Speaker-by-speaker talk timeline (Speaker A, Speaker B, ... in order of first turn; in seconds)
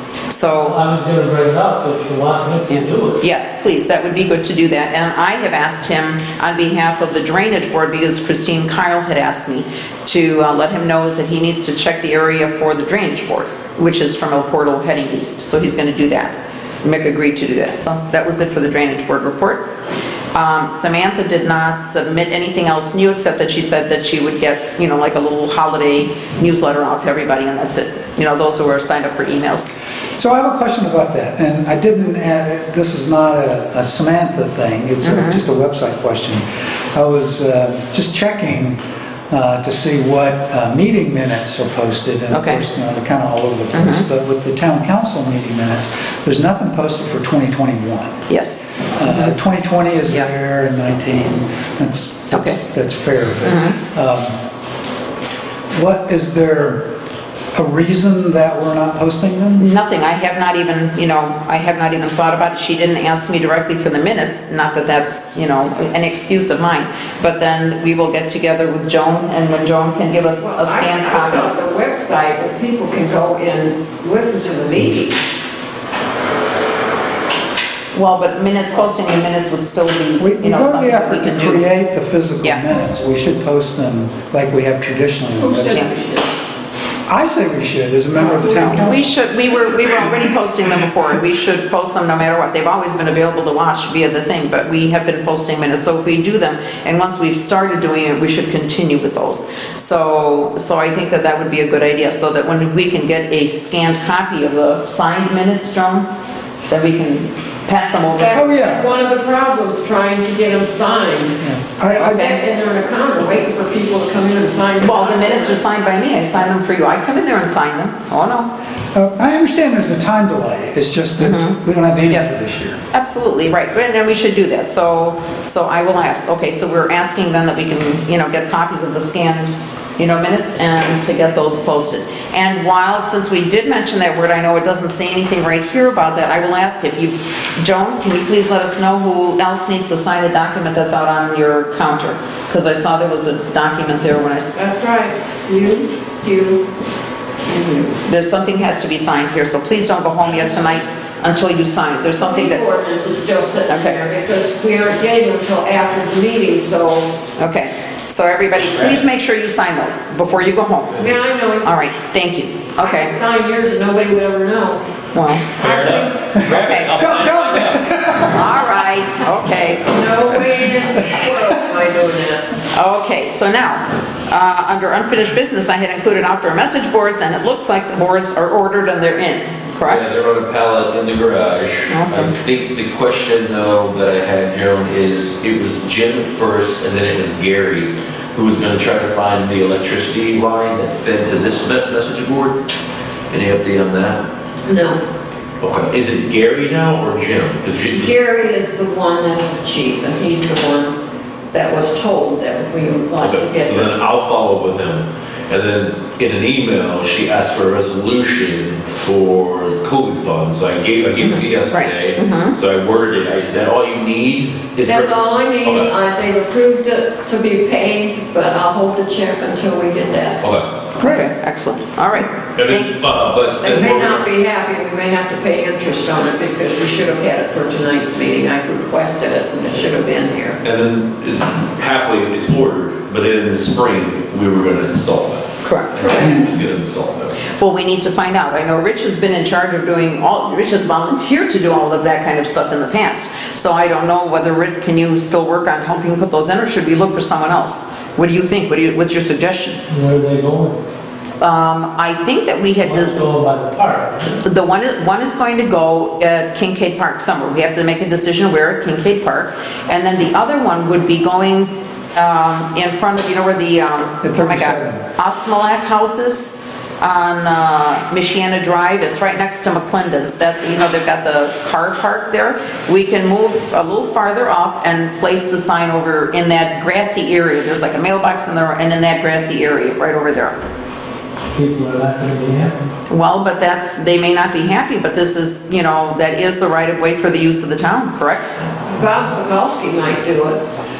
Speaker A: 0.3-0.8, 2.7-19.7, 20.3-29.7, 35.0-35.4, 42.3-42.6, 43.7-44.1, 48.3-49.4, 52.3-52.6, 53.4-53.8, 59.6-71.5, 77.9-81.7, 88.2-106.1, 106.7-108.5, 111.9-112.3, 114.8-118.5, 121.2-121.6, 122.1-122.4, 122.9-144.6, 147.5-152.6, 153.7-154.0, 157.4-161.1, 161.6-163.1, 165.1-165.7, 166.5-167.1, 168.0-170.0, 172.7-180.0, 181.9-182.3, 211.2-212.6, 221.0-222.9, 235.6-236.0, 237.5-249.8, 251.4-253.2, 254.4-280.6, 283.1-288.5
Speaker B: 0.6-3.2, 249.9-250.8, 252.8-254.4, 281.6-282.9
Speaker C: 30.2-48.2, 48.9-54.4, 55.7-56.9, 57.5-59.7, 80.2-85.9, 87.1-89.2, 89.8-90.2, 108.3-108.8, 111.4-112.3, 118.9-122.8, 166.3-168.4, 221.0-221.3, 264.2-265.0
Speaker D: 70.4-75.2, 85.4-86.3, 108.2-111.4, 111.9-115.6, 144.6-146.6, 152.2-157.2, 161.0-161.8, 162.8-164.8, 165.6-166.5, 169.7-172.4, 194.7-195.0, 197.9-201.0, 201.5-203.9, 214.8-220.4, 223.6-230.6, 235.9-236.5, 288.9-290.6
Speaker E: 165.6-167.8, 179.8-192.6, 193.3-194.2, 195.6-198.2, 203.2-215.9, 220.4-220.7, 222.6-224.2, 230.6-237.4